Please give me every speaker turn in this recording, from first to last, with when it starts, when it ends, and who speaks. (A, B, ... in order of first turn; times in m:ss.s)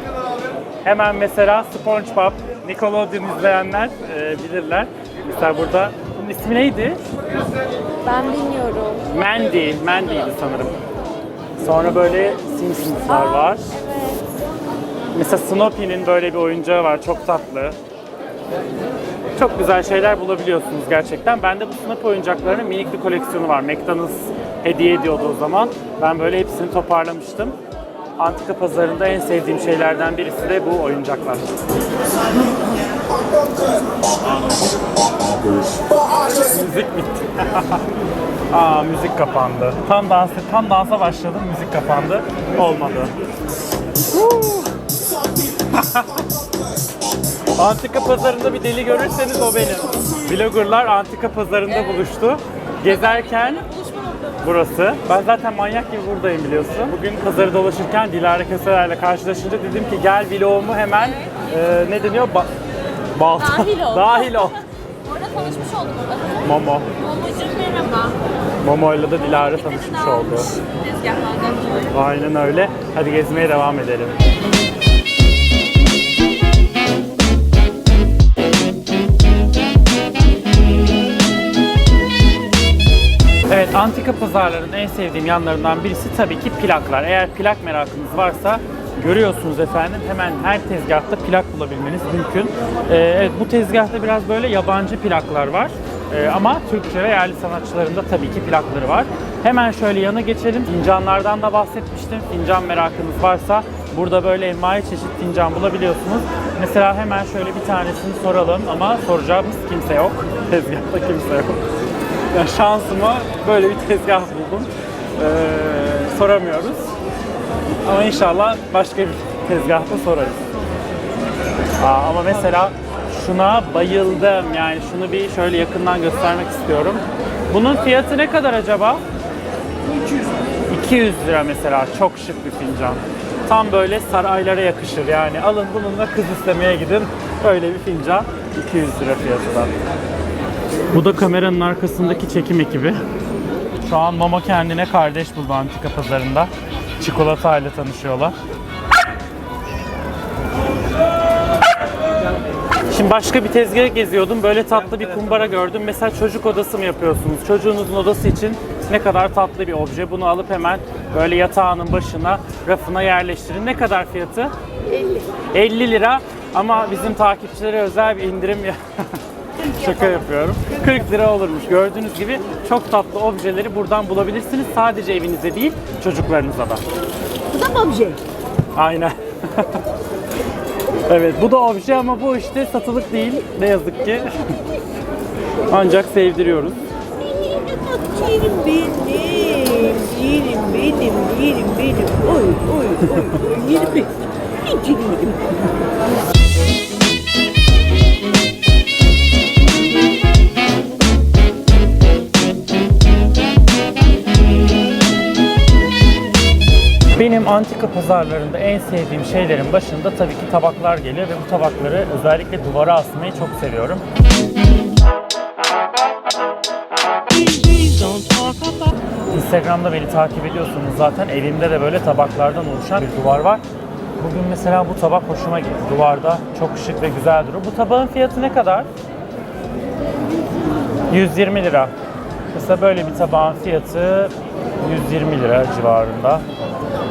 0:00.8-0:07.0 A
0:08.0-0:09.0 B
0:08.9-0:10.8 A
0:11.6-0:14.2 A
0:15.1-0:17.8 A
0:19.4-0:27.6 A
0:28.2-0:31.5 A
0:36.2-0:37.8 A
0:38.5-0:43.1 A
0:44.0-0:44.7 A
0:47.6-1:02.5 A
1:03.1-1:04.6 A
1:05.6-1:06.1 B
1:06.3-1:07.4 A
1:07.4-1:08.1 B
1:08.6-1:10.6 A
1:11.2-1:11.5 B
1:11.8-1:14.3 A
1:23.5-1:51.6 A
1:52.3-1:56.9 A
1:57.8-2:00.4 A
2:01.8-2:09.0 A
2:10.7-2:19.7 A
2:20.9-2:23.0 A
2:23.8-2:28.3 A
2:32.9-2:44.5 A
2:45.5-2:56.8 A
2:57.8-2:58.2 C
2:58.7-2:59.8 A
3:01.1-3:04.5 A
3:05.7-3:06.8 A
3:07.4-3:14.1 C
3:13.0-3:13.4 A
3:14.6-3:15.6 C
3:27.1-3:34.0 A
3:37.3-3:39.0 C
3:39.3-3:43.6 A
3:44.2-3:48.9 A
3:51.1-3:51.9 A
3:52.5-3:56.4 A